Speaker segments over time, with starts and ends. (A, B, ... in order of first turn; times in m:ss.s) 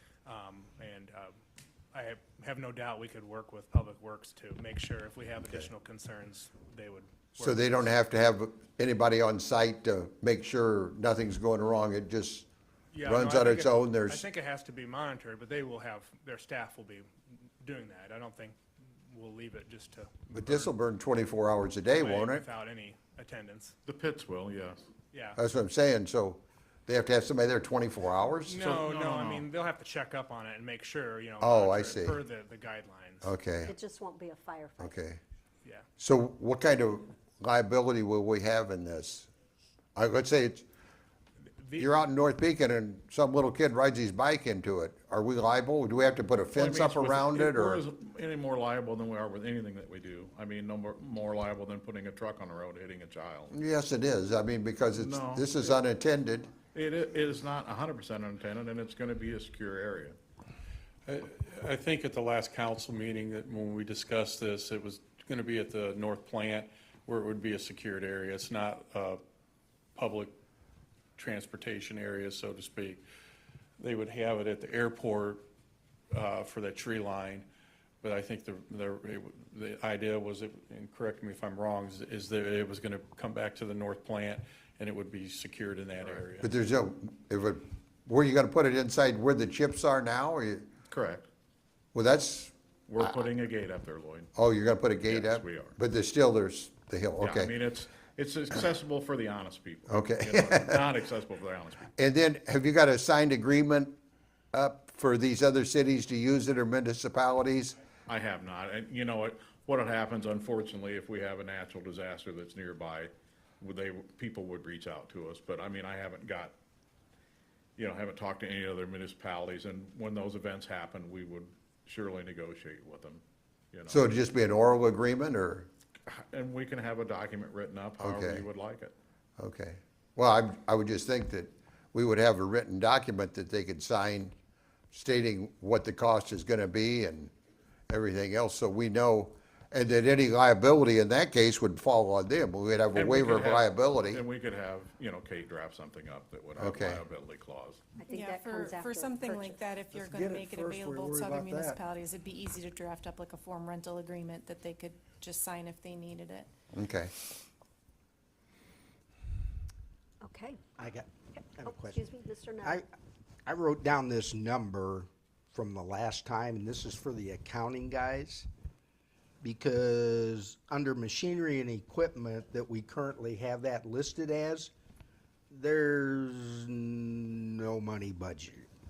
0:00.2-0:01.3 A
0:01.9-0:07.9 A
0:07.4-0:12.5 B
0:12.9-0:17.1 A
0:13.0-0:14.2 B
0:17.6-0:18.6 A
0:19.1-0:20.7 A
0:20.3-0:22.4 B
0:21.9-0:23.8 A
0:23.9-0:24.8 C
0:25.1-0:25.4 A
0:25.4-0:28.6 B
0:28.4-0:33.3 A
0:28.6-0:29.4 C
0:31.4-0:32.2 B
0:33.2-0:33.7 B
0:33.7-0:34.9 D
0:34.8-0:35.2 B
0:36.0-0:39.3 B
0:40.0-0:40.6 B
0:41.8-0:47.8 B
0:46.6-0:53.5 C
0:53.5-0:56.5 B
0:54.9-0:55.8 C
0:56.7-1:00.2 C
1:01.1-1:09.2 E
1:09.9-1:10.3 E
1:11.2-1:13.0 E
1:13.8-1:15.4 E
1:16.1-1:17.5 E
1:18.0-1:26.5 E
1:26.0-1:26.3 C
1:26.4-1:30.7 B
1:30.9-1:31.2 C
1:31.9-1:32.5 B
1:32.9-1:34.3 C
1:34.3-1:37.5 B
1:35.0-1:35.8 C
1:37.2-1:41.9 C
1:39.9-1:40.9 B
1:42.0-1:44.0 B
1:44.5-1:47.8 B
1:48.1-1:56.5 C
1:57.8-2:03.2 C
2:03.7-2:04.0 C
2:03.9-2:05.7 B
2:06.1-2:08.9 C
2:08.0-2:08.5 B
2:09.4-2:14.3 B
2:14.9-2:17.3 B
2:17.9-2:24.2 B
2:22.9-2:27.8 C
2:26.6-2:27.0 B
2:28.0-2:31.6 D
2:28.2-2:36.5 F
2:29.9-2:31.8 G
2:36.7-2:37.1 B
2:40.2-2:40.6 D
2:40.8-2:42.1 G
2:41.6-2:42.8 D
2:42.6-2:42.8 G
2:43.5-2:48.5 G
2:49.4-2:54.7 G
2:55.5-2:58.7 G